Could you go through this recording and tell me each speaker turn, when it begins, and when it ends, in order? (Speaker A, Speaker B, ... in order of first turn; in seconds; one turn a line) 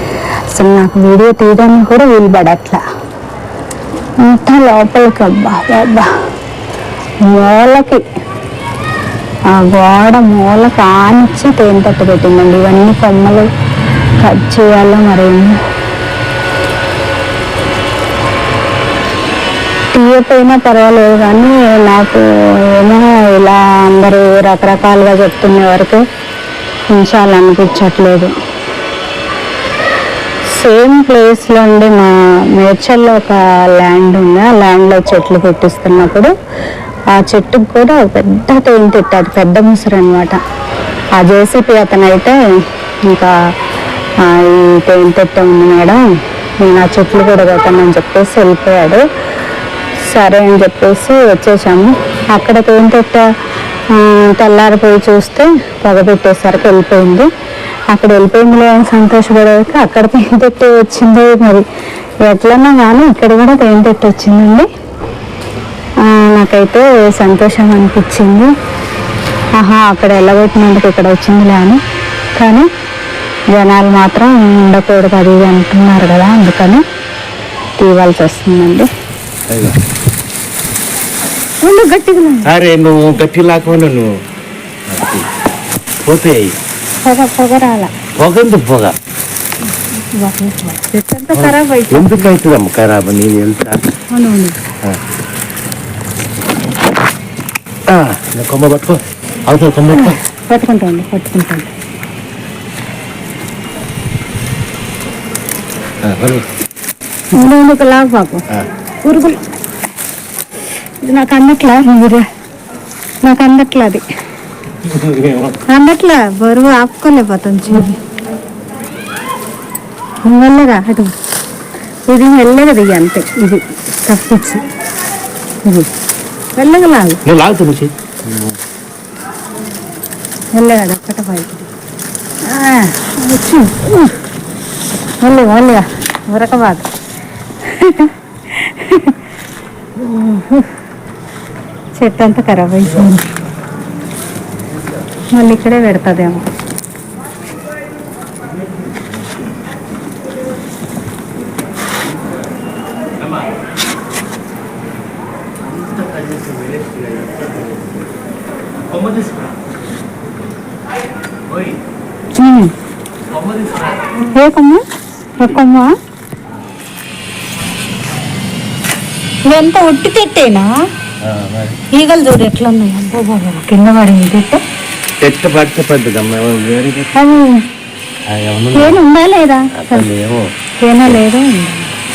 Speaker A: 0.5-2.8
Speaker A: 4.2-6.1
Speaker A: 7.2-8.0
Speaker A: 9.5-13.5
Speaker A: 14.2-15.6
Speaker A: 19.9-26.0
Speaker A: 26.9-28.3
Speaker A: 30.5-36.3
Speaker A: 37.1-40.4
Speaker A: 41.2-42.4
Speaker A: 43.1-43.3
Speaker A: 44.2-46.0
Speaker A: 46.6-49.0
Speaker A: 50.0-53.3
Speaker A: 53.9-57.3
Speaker A: 57.9-61.6
Speaker A: 62.3-64.7
Speaker A: 66.0-68.5
Speaker A: 69.6-71.8
Speaker A: 72.4-72.7
Speaker A: 73.5-76.8
Speaker A: 77.8-78.9
Speaker B: 79.5-79.8
Speaker A: 81.6-82.5
Speaker B: 82.5-84.1
Speaker B: 84.9-85.3
Speaker B: 86.0-86.5
Speaker A: 87.0-87.9
Speaker B: 88.2-89.0
Speaker A: 89.9-92.3
Speaker B: 91.3-93.8
Speaker A: 94.1-94.6
Speaker B: 97.9-100.2
Speaker A: 99.9-101.7
Speaker B: 106.0-106.5
Speaker A: 107.3-108.5
Speaker A: 109.0-109.4
Speaker A: 111.0-112.3
Speaker A: 113.2-114.0
Speaker B: 114.8-115.6
Speaker A: 115.7-118.0
Speaker A: 120.3-121.1
Speaker A: 122.1-124.7
Speaker A: 126.6-127.2
Speaker B: 127.2-128.6
Speaker A: 130.6-131.7
Speaker A: 132.5-134.1
Speaker A: 135.2-136.9
Speaker A: 137.6-139.2
Speaker A: 140.0-140.7
Speaker A: 142.0-143.3
Speaker A: 145.3-146.4
Speaker B: 155.8-157.7
Speaker B: 159.0-159.4
Speaker A: 162.3-162.7
Speaker A: 164.2-164.8
Speaker A: 165.4-165.9
Speaker A: 169.5-170.7
Speaker B: 171.2-171.8
Speaker A: 171.9-174.6
Speaker B: 175.2-177.2
Speaker A: 177.2-177.6
Speaker B: 178.3-179.0
Speaker A: 178.7-180.1
Speaker B: 179.7-180.4
Speaker A: 180.8-181.9